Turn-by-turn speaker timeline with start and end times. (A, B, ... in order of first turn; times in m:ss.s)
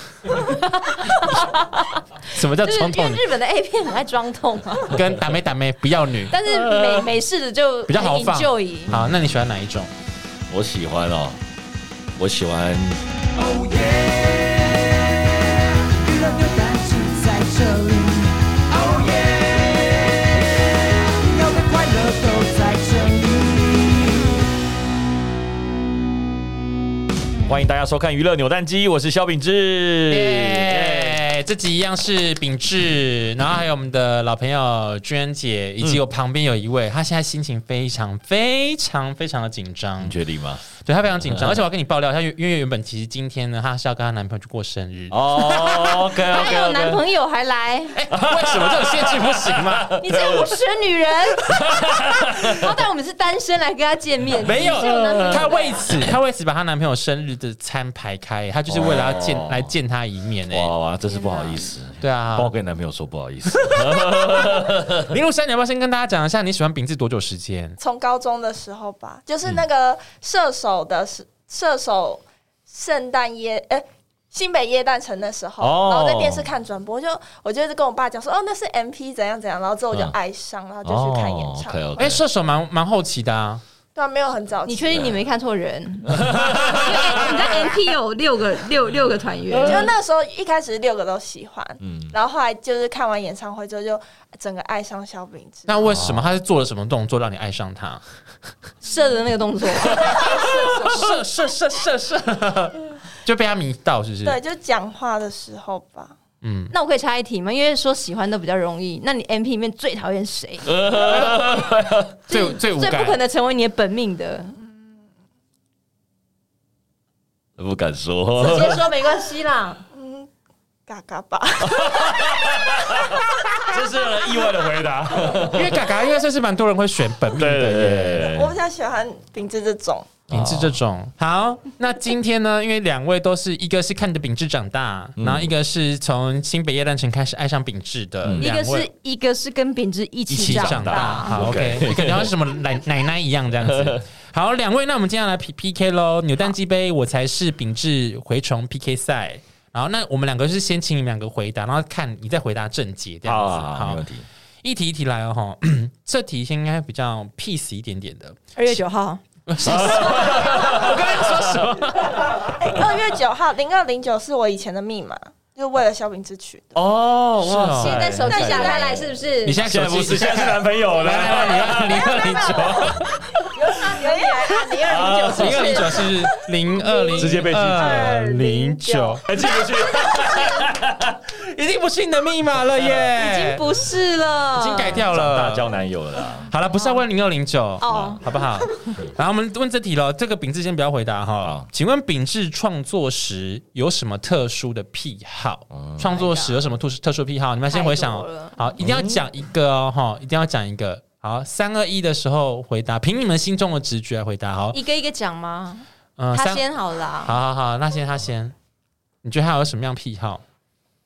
0:00.3-0:02.0 A
0:02.3-0:03.2 B
0:02.6-0:05.0 A
0:04.9-0:06.4 B
0:06.3-0:08.9 A
0:06.5-0:07.1 C
0:07.9-0:09.9 B
0:10.5-0:11.4 C
0:12.2-0:13.0 C
0:13.4-0:24.4 D
0:27.5-0:31.2 C
0:30.1-0:40.2 B
0:40.0-0:40.6 C
0:40.8-0:45.2 B
0:41.2-0:41.6 C
0:45.1-0:47.0 C
0:45.4-0:48.0 A
0:47.9-0:50.0 B
0:48.1-0:50.6 C
0:50.0-0:56.1 A
0:51.5-0:52.7 C
0:54.4-1:00.7 B
0:54.4-0:55.6 C
0:58.7-0:59.7 C
1:00.5-1:05.1 C
1:01.1-1:01.7 A
1:02.0-1:02.5 B
1:03.5-1:07.8 B
1:07.8-1:22.0 E
1:15.6-1:16.5 C
1:19.9-1:20.2 C
1:20.8-1:22.2 C
1:22.0-1:23.6 B
1:24.0-1:25.2 E
1:24.7-1:29.9 A
1:24.9-1:25.2 C
1:26.1-1:27.4 C
1:29.5-1:29.9 C
1:29.6-1:35.8 E
1:31.8-1:32.1 C
1:35.7-1:38.0 B
1:35.9-1:36.3 C
1:38.8-1:41.0 A
1:39.8-1:41.2 E
1:40.1-1:44.4 B
1:44.2-1:46.2 E
1:46.4-1:46.7 B
1:46.7-1:50.7 A
1:50.7-1:52.1 C
1:51.1-1:51.5 B
1:52.3-1:53.2 B
1:52.3-1:54.6 A
1:57.6-1:58.9 C
1:58.4-1:59.8 A
1:59.9-2:00.3 E
2:00.9-2:04.5 E
2:01.7-2:05.9 C
2:05.5-2:08.3 B
2:07.3-2:08.6 C
2:08.3-2:10.1 E
2:10.3-2:10.8 C
2:10.3-2:18.9 B
2:15.2-2:15.5 C
2:18.2-2:18.5 C
2:18.4-2:21.5 A
2:20.3-2:22.3 C
2:20.3-2:34.1 B
2:23.6-2:24.0 C
2:33.2-2:34.2 C
2:34.6-2:38.4 B
2:38.6-2:39.2 A
2:39.5-2:42.8 B
2:39.6-2:41.7 C
2:42.6-2:46.8 E
2:46.7-2:48.4 C
2:47.4-2:48.9 B
2:47.8-2:49.6 A
2:48.3-2:49.1 E
2:49.4-2:53.1 B
2:49.6-2:53.1 C
2:51.6-2:56.1 E
2:53.6-2:56.2 A
2:54.9-2:55.9 C
2:55.4-2:59.2 B
2:56.7-3:00.5 E
2:57.2-2:58.2 C
2:59.2-3:01.2 C
3:01.3-3:03.6 B
3:02.7-3:03.0 C
3:03.2-3:05.0 A
3:04.5-3:05.7 B
3:05.0-3:06.5 C
3:06.5-3:24.8 B
3:07.8-3:08.9 A
3:07.9-3:08.2 C
3:15.7-3:16.0 C
3:16.0-3:16.6 A
3:17.7-3:18.6 A
3:18.8-3:19.2 C
3:24.7-3:27.4 A
3:26.2-3:26.6 B
3:27.2-3:28.6 B
3:29.2-3:30.4 B